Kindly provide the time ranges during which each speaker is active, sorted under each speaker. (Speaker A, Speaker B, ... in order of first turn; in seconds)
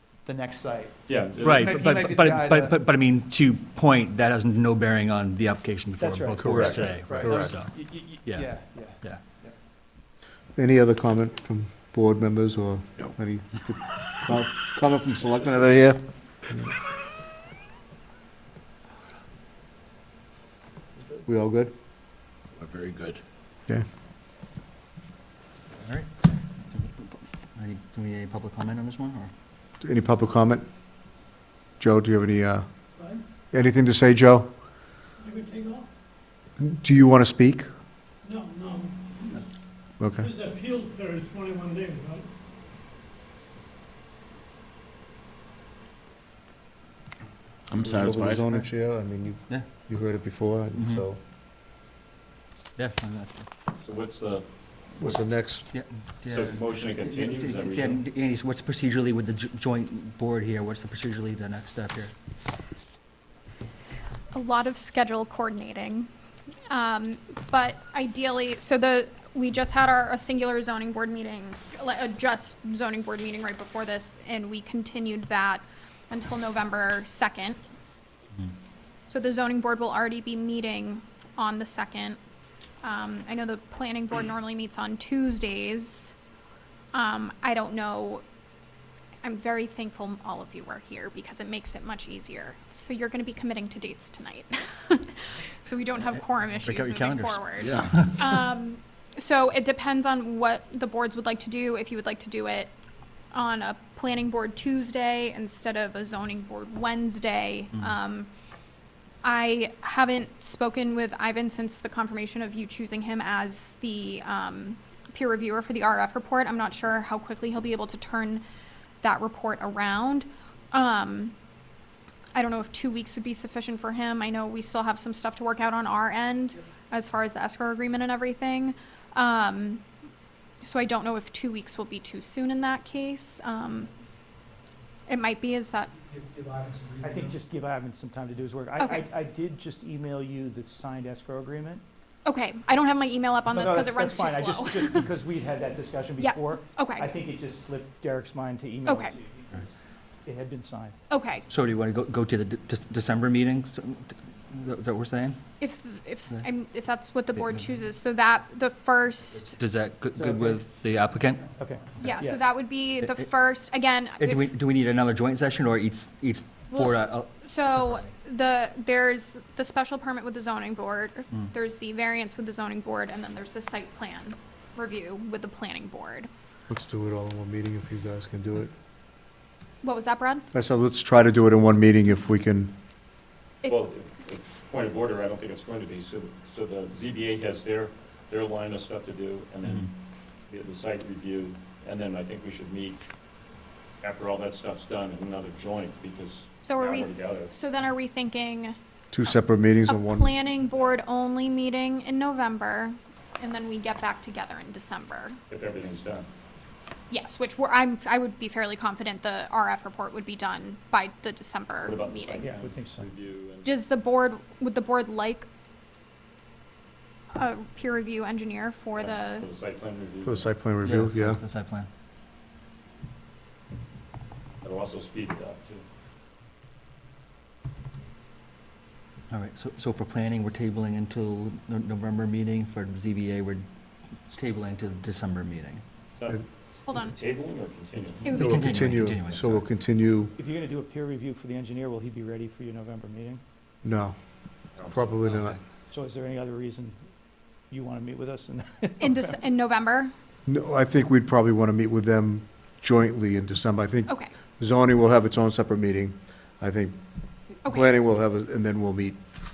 Speaker A: 0.2-2.8, 6.5-9.5, 136.1-137.4
Speaker B: 1.1-1.8, 53.8-55.2, 56.3-58.0, 183.7-189.9, 190.5-193.0, 194.0-197.5, 205.5-206.3, 211.8-213.7, 219.0-220.5, 224.6-225.8, 236.2-238.4, 244.8-245.0
Speaker C: 1.4-9.2, 25.8-26.1, 26.7-29.3, 50.8-51.0, 52.8-53.5, 55.7-62.1, 96.0-98.4, 151.5-155.4, 157.3-157.7, 159.4-161.5, 162.9-163.3, 164.2-168.1, 220.8-221.9, 229.3-233.7, 234.3-235.8, 238.3-239.7, 245.2-245.6
Speaker D: 6.0-6.6, 137.0-141.8, 143.5-151.0, 160.2-160.7, 161.6-162.5, 212.4-213.1, 240.4-243.4, 245.9-247.0, 247.7-249.4
Speaker E: 6.4-7.6, 10.6-16.8, 21.2-21.7, 29.8-30.7, 31.8-34.6, 36.6-37.7, 40.0-40.3, 47.8-51.2, 55.0-55.7, 176.7-178.8, 180.5-182.7, 199.1-200.3, 220.2-221.4, 238.4-240.3, 243.8-245.6, 250.5-257.0, 257.5-259.2
Speaker F: 22.6-23.2, 47.7-48.6, 97.6-98.0
Speaker G: 35.2-35.8, 38.3-38.9, 40.2-42.2
Speaker H: 64.3-66.1, 66.7-77.6, 79.1-82.2, 82.8-86.1, 86.9-88.2, 89.2-102.7, 103.3-108.3, 109.2-118.4, 119.0-121.3, 122.3-129.8, 130.6-133.9, 135.1-136.0, 138.8-139.1, 142.2-145.1, 146.2-147.1, 148.9-149.2, 151.1-151.4, 155.6-159.6, 161.9-164.5, 166.7-176.3, 179.8-180.4, 196.6-205.4, 207.1-212.5, 213.6-215.5, 217.3-219.5, 236.9-237.2, 238.2-238.6, 249.0-250.1, 257.6-257.9